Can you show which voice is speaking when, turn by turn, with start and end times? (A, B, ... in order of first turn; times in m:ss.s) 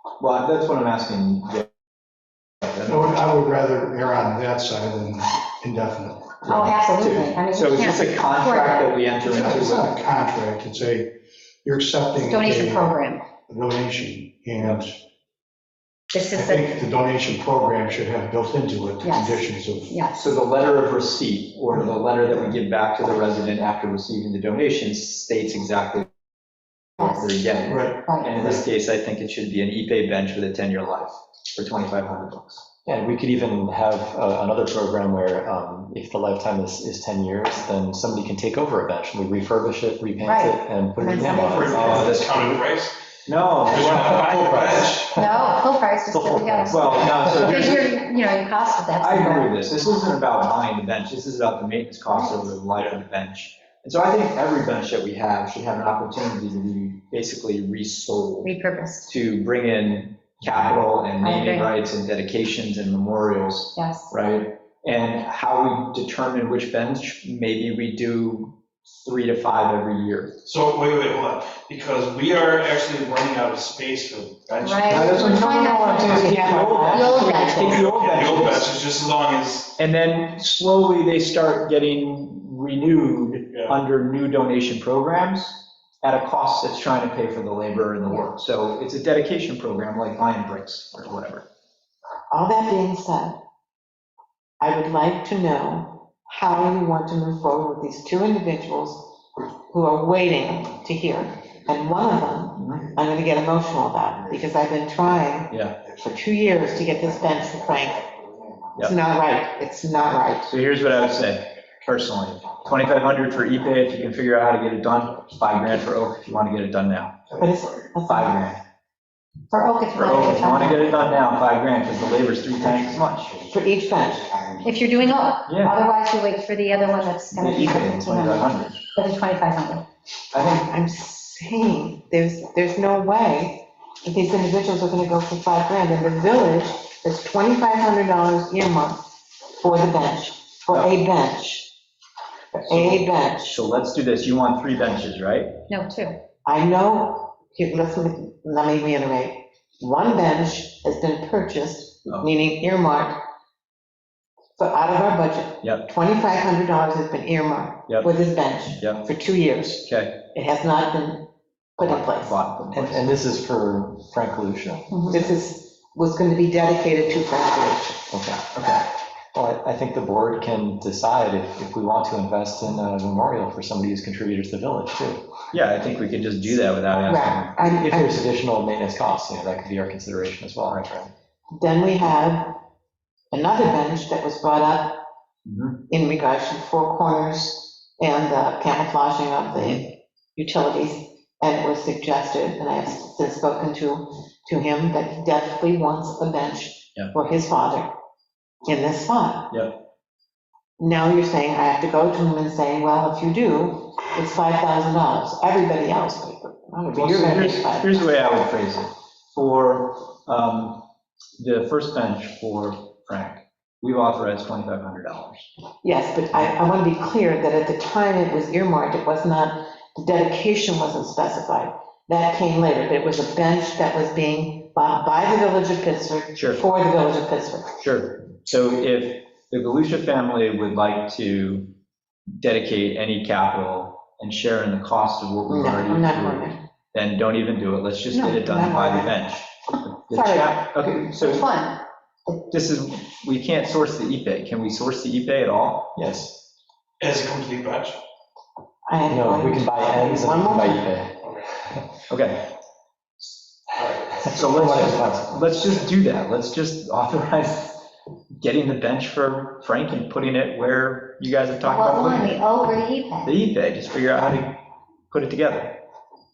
0:00.2-0:01.6 A
0:02.6-0:03.2 A
0:02.8-0:06.4 B
0:06.4-0:08.9 C
0:06.5-0:10.0 A
0:09.2-0:13.0 B
0:12.2-0:13.2 C
0:13.5-0:15.0 B
0:16.1-0:16.7 C
0:16.3-0:20.0 B
0:19.0-0:20.3 C
0:20.1-0:26.1 A
0:27.0-0:27.4 C
0:27.0-0:32.7 A
0:27.6-0:28.7 B
0:28.0-0:28.4 C
0:32.8-0:42.1 D
0:40.2-0:41.8 C
0:41.3-0:42.9 E
0:41.5-0:42.6 A
0:43.3-0:45.1 A
0:43.6-0:45.2 E
0:45.1-0:49.5 C
0:46.1-0:47.5 D
0:46.7-0:47.9 A
0:49.0-0:58.6 A
0:52.1-0:52.4 C
0:52.7-0:53.0 E
0:58.4-0:59.1 C
0:59.1-1:10.3 A
1:01.2-1:01.7 C
1:03.7-1:04.1 C
1:10.4-1:15.1 E
1:14.6-1:17.8 C
1:14.9-1:18.8 A
1:15.9-1:17.3 F
1:17.5-1:19.7 E
1:19.8-1:31.5 A
1:23.5-1:23.8 E
1:32.3-1:33.4 F
1:34.6-1:48.1 F
1:42.6-1:42.9 A
1:45.5-1:45.9 A
1:48.8-1:50.5 F
1:50.4-1:57.4 A
1:57.4-1:58.5 F
1:58.0-1:58.6 A
1:59.5-2:01.0 C
1:59.9-2:03.5 A
2:03.5-2:04.4 F
2:04.6-2:09.8 C
2:05.5-2:05.8 A
2:07.3-2:08.9 A
2:10.3-2:10.7 A
2:10.4-2:21.7 F
2:22.5-2:25.6 A
2:22.6-2:23.5 F
2:25.7-2:26.2 C
2:26.4-2:33.2 F
2:34.6-2:42.4 F
2:35.6-2:35.9 A
2:38.7-2:39.1 A
2:39.8-2:40.3 A
2:41.8-2:43.1 A
2:42.7-2:44.9 D
2:44.9-2:45.3 C
2:45.1-2:48.1 F
2:48.1-2:48.4 D
2:48.5-2:48.8 A
2:49.3-2:55.3 D
2:55.5-2:58.0 A
2:57.0-2:58.1 F
2:57.8-3:01.1 D
3:01.5-3:02.6 F
3:03.3-3:05.0 F
3:05.4-3:05.8 A
3:05.9-3:17.9 F
3:18.6-3:19.5 F
3:19.5-3:19.8 A
3:20.8-3:28.0 F
3:26.9-3:30.8 A
3:31.4-3:35.4 A
3:35.8-3:47.8 F
3:46.4-3:46.6 A
3:47.8-3:51.7 A
3:52.4-4:01.5 A
3:55.5-3:56.6 F
3:58.1-3:59.2 F
4:00.1-4:00.6 F
4:01.1-4:01.8 C
4:02.3-4:05.9 A
4:06.0-4:06.3 D
4:07.0-4:08.0 E
4:08.9-4:10.9 F
4:09.1-4:11.2 D
4:12.1-4:12.5 A
4:13.8-4:14.6 E
4:14.3-4:17.9 A
4:14.4-4:15.5 D
4:18.4-4:22.4 A
4:21.6-4:23.4 C
4:23.2-4:25.8 A